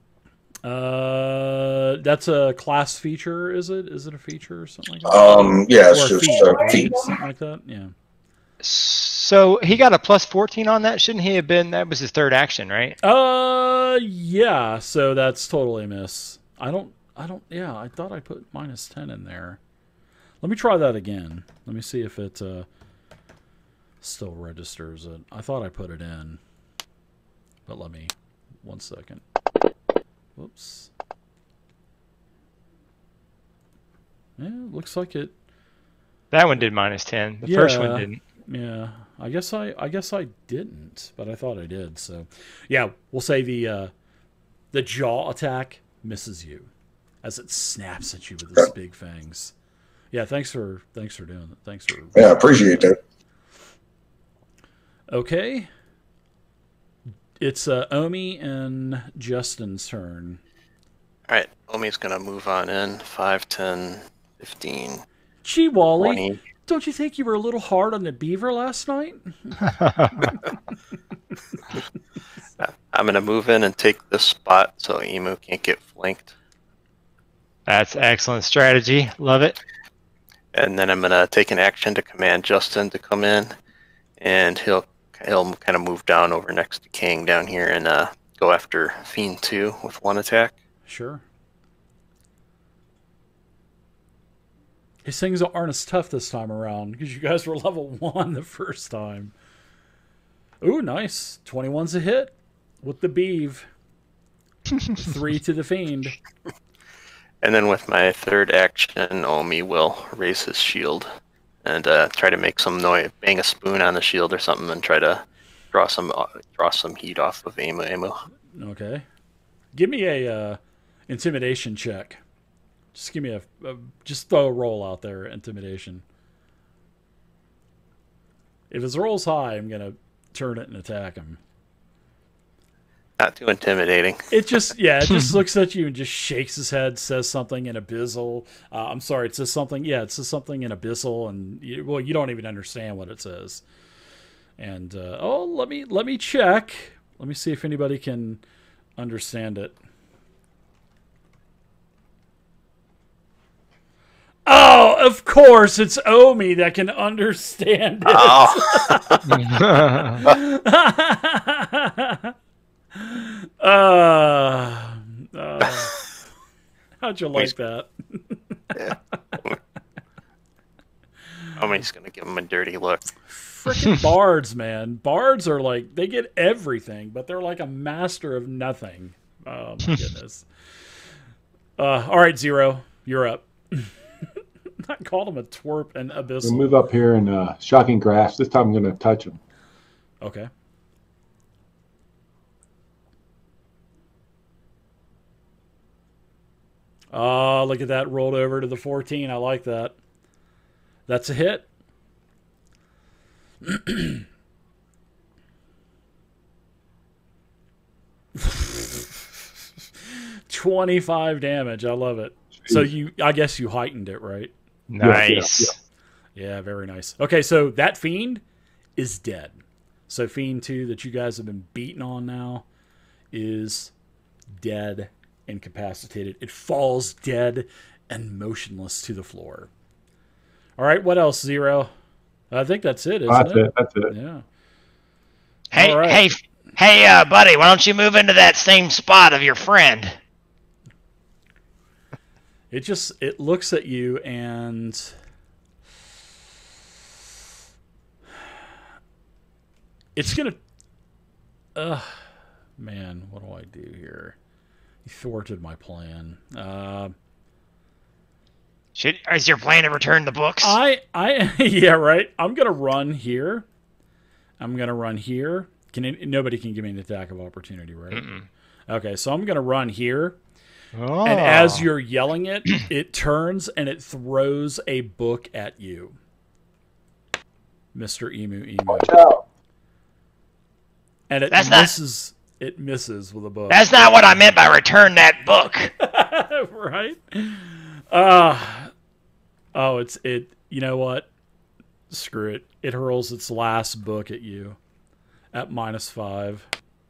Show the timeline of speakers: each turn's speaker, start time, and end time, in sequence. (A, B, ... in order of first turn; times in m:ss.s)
0:00.6-0:07.9 A
0:05.0-0:07.1 B
0:08.6-0:13.0 C
0:13.0-0:19.6 A
0:20.4-0:22.7 A
0:24.0-0:26.4 A
0:27.7-0:29.2 A
0:30.4-0:30.9 A
0:34.4-0:35.3 A
0:36.3-0:38.2 C
0:37.4-0:43.9 A
0:44.7-0:46.7 A
0:47.2-0:49.5 A
0:50.1-0:52.3 A
0:52.1-0:53.0 B
0:55.1-0:55.7 A
0:57.4-1:00.4 A
1:01.3-1:05.0 D
1:05.4-1:09.6 A
1:06.0-1:06.4 D
1:09.6-1:10.3 C
1:12.6-1:16.3 D
1:17.7-1:19.6 C
1:20.5-1:23.5 D
1:24.2-1:30.5 D
1:30.8-1:31.2 A
1:35.0-1:39.3 A
1:40.6-1:43.7 A
1:45.0-1:46.1 A
1:47.4-1:51.1 D
1:51.6-1:58.2 D
1:58.5-1:59.0 A
1:59.7-2:02.2 A
2:02.9-2:06.0 A
2:08.7-2:11.4 A
2:13.2-2:14.2 D
2:14.3-2:23.6 A
2:24.6-2:28.4 A
2:29.0-2:29.7 A
2:34.4-2:39.4 A
2:38.1-2:39.2 D
2:39.3-2:40.2 C
2:40.2-2:42.3 A
2:43.0-2:45.9 A
2:47.0-2:48.6 A
2:48.7-2:49.6 D
2:51.6-2:53.1 D
2:53.3-3:00.5 A
3:01.8-3:03.9 A
3:04.8-3:06.8 A
3:06.4-3:09.4 E
3:10.2-3:10.5 A
3:17.1-3:19.9 A
3:21.1-3:21.6 A
3:23.6-3:24.2 A
3:28.4-3:29.0 A
3:30.1-3:34.5 A
3:34.9-3:35.7 C
3:35.0-3:35.7 E
3:36.3-3:38.4 A
3:39.0-3:42.6 A
3:43.3-3:43.9 A
3:44.5-3:49.7 A
3:50.8-3:51.9 A
3:52.5-3:54.4 A
3:53.3-3:54.1 E
3:55.7-4:00.1 F
3:55.7-3:56.2 A
4:02.7-4:05.1 A
4:10.2-4:10.6 A
4:11.8-4:12.2 A
4:12.8-4:14.4 A
4:15.0-4:17.1 A
4:19.0-4:20.8 F
4:20.6-4:23.6 A
4:24.6-4:28.2 A
4:28.1-4:28.4 C
4:28.9-4:30.4 A
4:31.0-4:31.9 C
4:31.2-4:36.2 A
4:37.9-4:39.1 A
4:41.3-4:44.3 A
4:41.5-4:41.9 F
4:43.7-4:45.9 F
4:46.0-4:48.9 A
4:49.7-4:51.3 A
4:52.1-4:54.8 A
4:55.5-4:56.7 A